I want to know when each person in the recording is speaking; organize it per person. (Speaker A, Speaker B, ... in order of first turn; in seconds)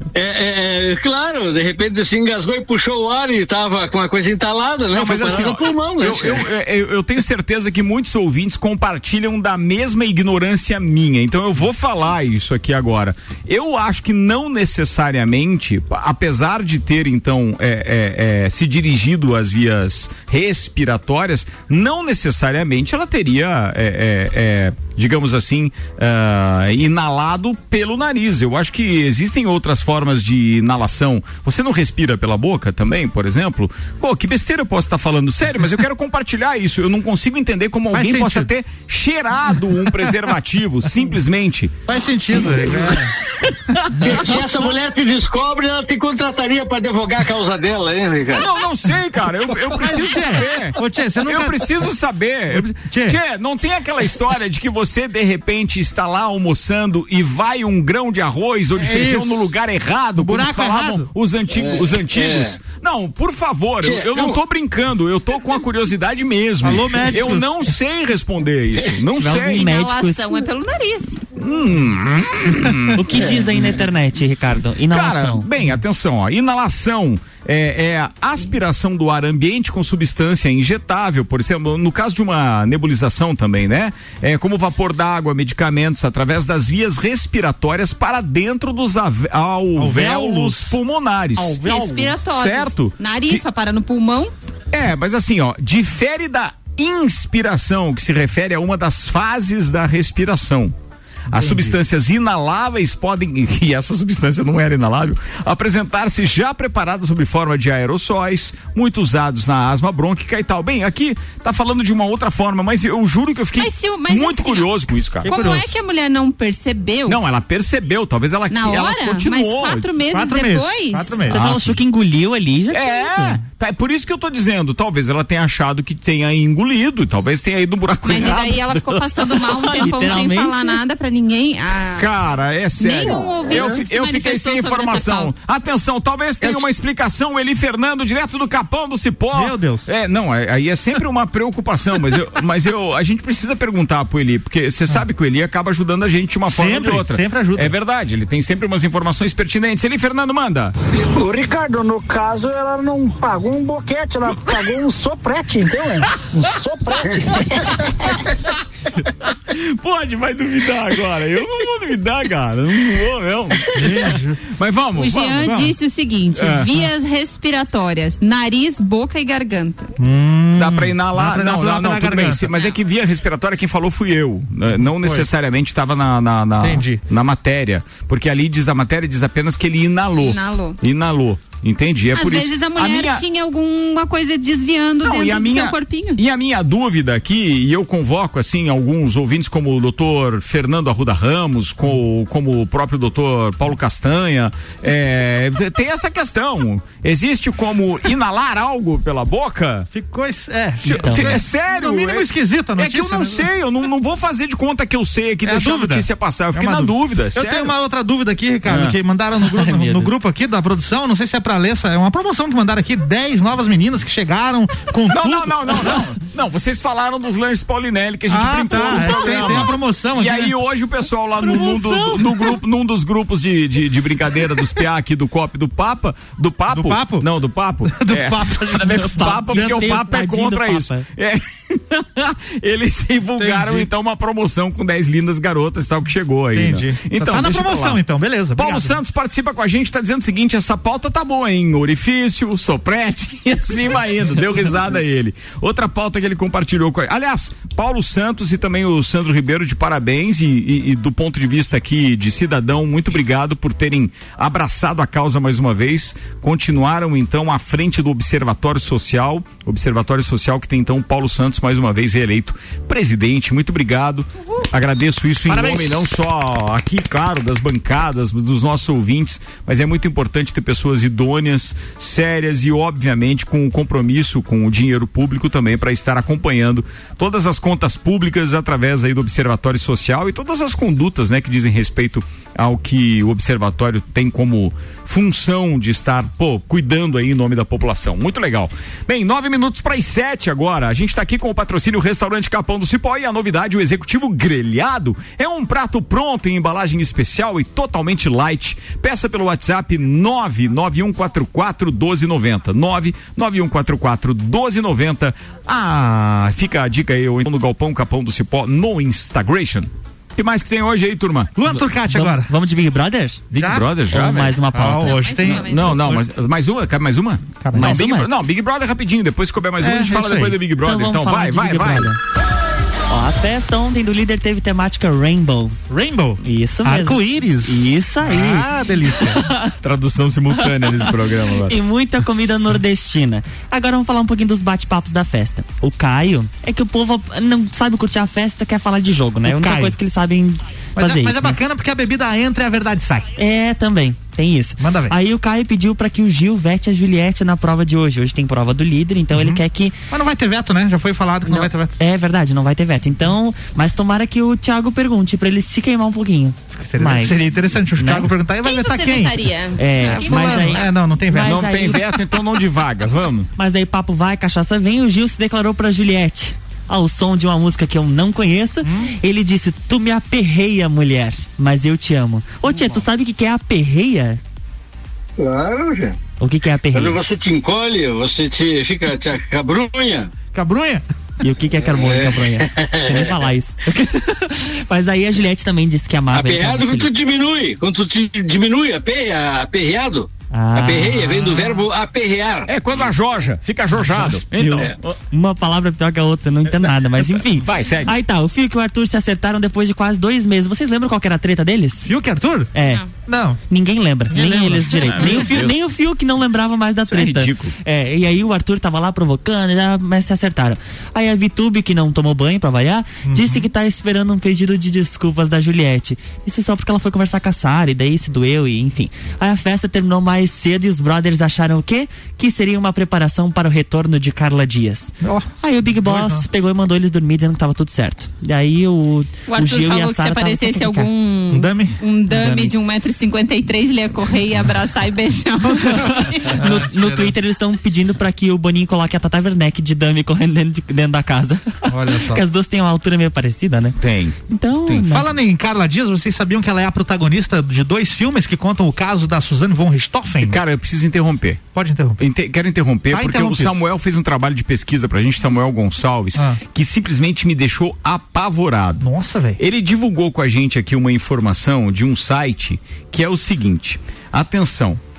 Speaker A: 0.1-6.5, 43.9-48.5, 61.5-62.6, 63.8-64.4, 375.4-376.2, 376.9-380.3, 381.9-383.4, 386.3-393.1
Speaker B: 4.9-41.7, 48.3-69.7, 71.3-73.0, 74.9-93.4, 94.7-100.7, 101.3-115.3, 117.0-119.8, 121.3-121.8, 122.7-130.0, 132.0-150.7, 159.0-165.5, 166.4-166.7, 170.6-183.2, 185.0-199.9, 200.8-207.7, 208.7-208.9, 215.1-238.0, 238.6-311.5, 313.5-314.6, 315.5-322.1, 329.8-331.7, 361.4-363.5, 392.7-395.2, 397.6-398.1, 405.0-405.8, 407.1-407.7, 444.0-445.1, 450.4-451.6, 452.2-459.0, 459.6-465.0
Speaker C: 37.9-38.5, 41.9-43.1, 49.8-51.9, 52.5-53.2, 58.8-59.6, 60.2-61.1, 66.6-67.7, 89.8-90.8, 91.4-92.2, 101.3-101.8, 115.2-115.7, 120.1-121.4, 139.3-139.9, 146.5-147.7, 163.7-164.4, 165.4-165.7, 170.0-172.5, 174.7-175.3, 176.6-177.0, 199.9-203.5, 205.4-216.0, 218.3-220.5, 221.4-222.6, 226.7-227.2, 227.8-229.9, 233.4-233.9, 236.5-238.9, 265.5-266.1, 311.6-312.5, 313.6-313.9, 314.7-316.2, 317.6-318.0, 319.8-320.6, 325.9-329.4, 339.4-339.9, 340.9-343.3, 344.8-345.1, 349.3-352.0, 356.8-359.4, 360.0-362.1, 372.7-373.0, 380.5-381.0, 402.1-402.7, 403.2-403.6, 404.3-405.5, 413.2-413.7, 425.2-426.4, 431.5-432.0, 436.6-437.3, 441.9-442.4, 445.1-450.6, 451.7-452.2, 453.1-453.8, 456.3-456.6, 459.0-459.6
Speaker D: 69.2-70.3, 72.9-75.5, 121.3-123.4, 129.7-130.7, 200.8-201.4, 209.4-210.1, 228.8-231.0, 312.1-313.4, 314.1-315.4, 317.7-318.3, 320.8-322.2, 323.1-325.8, 326.4-329.7, 330.8-331.1, 331.6-341.6, 343.4-349.9, 351.5-358.3, 359.8-362.1, 363.6-374.4, 376.4-377.2, 381.4-387.1, 390.5-391.8, 394.1-402.1, 402.7-403.0, 403.7-431.1, 432.3-432.7, 436.6-444.0, 444.5-445.3
Speaker E: 69.2-71.2, 91.6-94.3, 113.6-117.2, 118.5-121.3, 128.0-132.1, 132.8-135.3, 164.9-169.9, 180.2-180.8, 182.1-186.2, 315.0-316.1, 358.6-360.9, 429.5-436.6
Speaker F: 151.0-157.7